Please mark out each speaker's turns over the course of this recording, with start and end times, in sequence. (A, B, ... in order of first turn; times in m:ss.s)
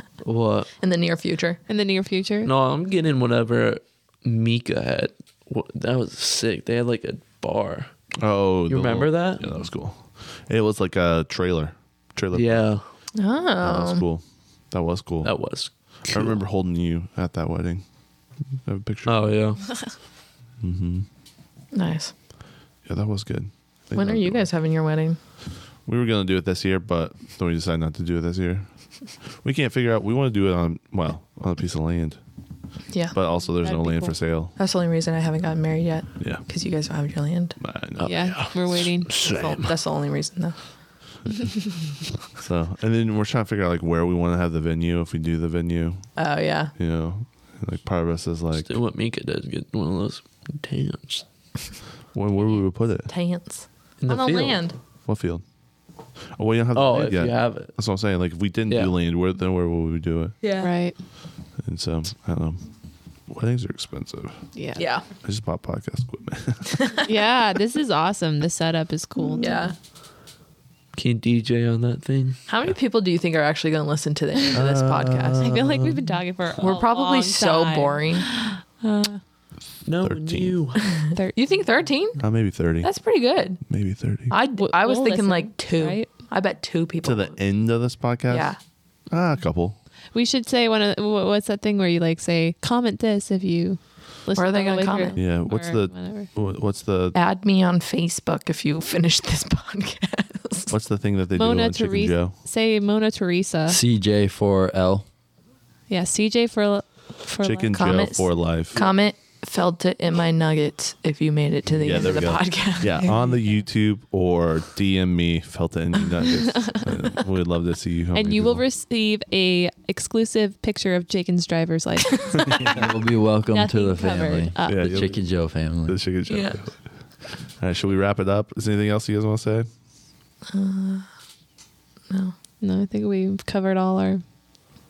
0:00.2-0:00.7 A
0:00.8-0:01.6 B
0:01.7-0:02.5 C
0:02.4-0:07.9 A
0:08.2-0:12.7 D
0:08.7-0:09.5 A
0:12.3-0:12.8 A
0:13.2-0:14.0 B
0:13.6-0:15.4 D
0:15.2-0:16.4 A
0:16.1-0:17.8 D
0:18.6-0:19.3 D
0:19.1-0:19.6 A
0:20.6-0:21.1 D
0:21.7-0:22.1 B
0:22.8-0:24.5 D
0:24.0-0:25.2 B
0:25.8-0:32.2 D
0:33.1-0:34.6 D
0:33.6-0:34.2 C
0:34.6-0:37.6 B
0:36.2-0:36.5 D
0:37.6-0:38.6 D
0:38.0-0:39.8 A
0:38.0-0:39.2 C
0:39.2-0:40.7 B
0:42.4-0:46.2 D
0:46.2-0:46.7 B
0:46.8-0:48.8 D
0:48.6-0:51.2 A
0:52.1-0:53.1 D
0:53.1-0:54.8 B
0:54.0-0:54.7 A
0:55.1-0:55.4 D
0:56.3-1:00.4 D
0:56.7-0:57.8 A
1:00.4-1:00.7 B
1:00.6-1:01.0 C
1:01.6-1:02.7 D
1:03.3-1:04.4 D
1:04.5-1:04.9 C
1:04.8-1:05.0 B
1:05.2-1:06.8 D
1:06.7-1:07.1 B
1:07.0-1:09.7 C
1:09.3-1:09.7 B
1:11.0-1:12.4 A
1:12.5-1:15.4 B
1:14.5-1:16.0 D
1:15.4-1:19.2 C
1:16.6-1:18.3 B
1:19.8-1:20.8 A
1:20.0-1:20.6 D
1:21.0-1:23.6 B
1:22.2-1:22.9 D
1:23.6-1:24.3 D
1:24.3-1:27.4 B
1:24.5-1:26.2 C
1:27.0-1:28.5 D
1:28.3-1:28.6 B
1:29.1-1:29.8 D
1:30.1-1:36.3 C
1:34.4-1:35.4 B
1:35.2-1:37.2 D
1:37.1-1:40.7 B
1:40.7-1:42.4 D
1:41.4-1:43.8 C
1:43.7-1:45.1 E
1:45.9-1:48.1 C
1:47.4-1:48.9 D
1:47.7-1:53.3 B
1:51.8-1:58.6 D
1:56.6-1:56.9 C
1:58.1-2:02.8 C
2:02.5-2:02.8 D
2:02.7-2:06.0 E
2:03.5-2:05.2 C
2:04.6-2:06.8 D
2:06.3-2:06.7 B
2:07.6-2:09.7 D
2:10.5-2:11.1 B
2:12.1-2:12.4 B
2:12.6-2:14.2 C